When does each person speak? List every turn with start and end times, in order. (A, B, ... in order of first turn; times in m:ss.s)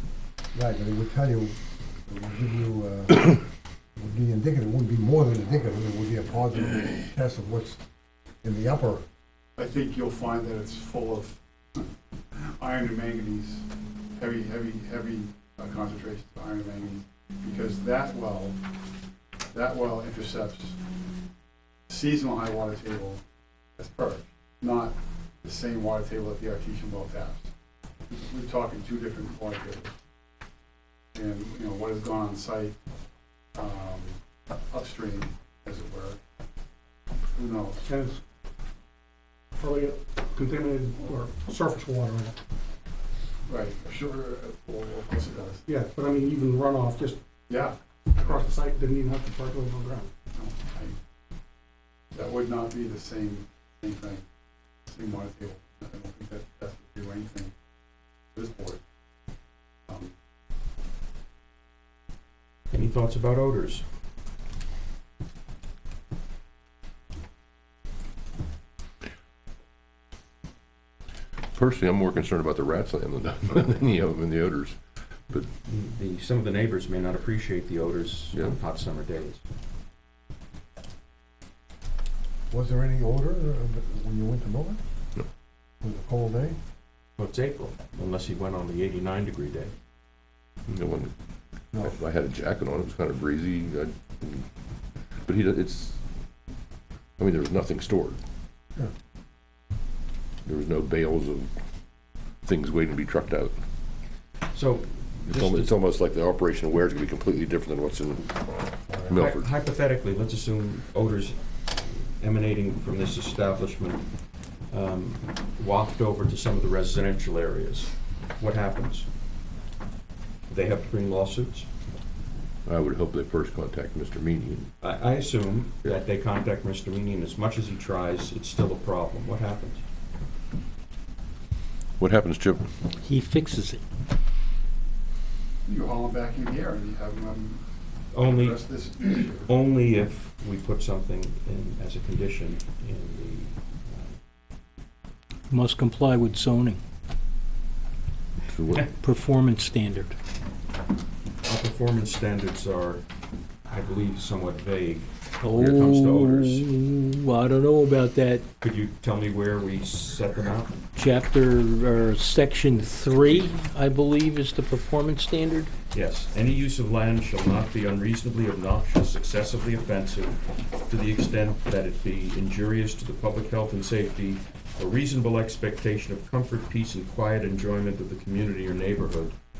0:00.5-0:01.5 A
0:02.1-0:03.4 A
0:04.0-0:07.8 A
0:08.4-0:09.0 A
0:09.6-0:11.8 B
0:12.6-0:18.6 B
0:19.5-0:20.8 B
0:21.9-0:23.2 B
0:23.8-0:27.5 B
0:28.1-0:29.9 B
0:31.1-0:32.8 B
0:33.6-0:34.2 B
0:34.7-0:36.2 B
0:37.4-0:37.9 B
0:37.8-0:38.2 C
0:39.6-0:42.4 C
0:43.4-0:45.7 B
0:45.7-0:47.2 C
0:47.5-0:47.8 B
0:48.1-0:50.1 C
0:50.3-0:50.9 B
0:52.1-0:54.2 B
0:54.9-0:57.5 B
0:58.3-0:58.8 B
1:02.7-1:03.8 D
1:11.5-1:14.8 E
1:15.6-1:19.4 D
1:22.5-1:24.8 A
1:25.8-1:26.6 A
1:27.2-1:29.7 D
1:30.7-1:31.1 E
1:31.8-1:34.4 E
1:35.2-1:36.0 E
1:37.2-1:38.2 E
1:40.4-1:41.5 E
1:42.4-1:43.5 E
1:44.5-1:45.7 D
1:45.3-1:48.3 E
1:49.1-1:49.5 E
1:49.1-1:54.0 D
1:54.7-1:59.1 D
2:00.5-2:01.7 D
2:02.6-2:04.7 E
2:04.8-2:09.8 D
2:12.0-2:12.7 E
2:13.0-2:13.8 F
2:15.6-2:17.6 B
2:18.1-2:18.6 D
2:18.2-2:19.5 B
2:19.4-2:24.1 D
2:25.5-2:26.8 F
2:28.5-2:28.8 E
2:28.8-2:30.2 F
2:31.4-2:33.0 D
2:33.7-2:36.7 D
2:35.4-2:38.5 F
2:38.6-2:40.7 D
2:40.9-2:45.7 F
2:45.9-2:59.3 D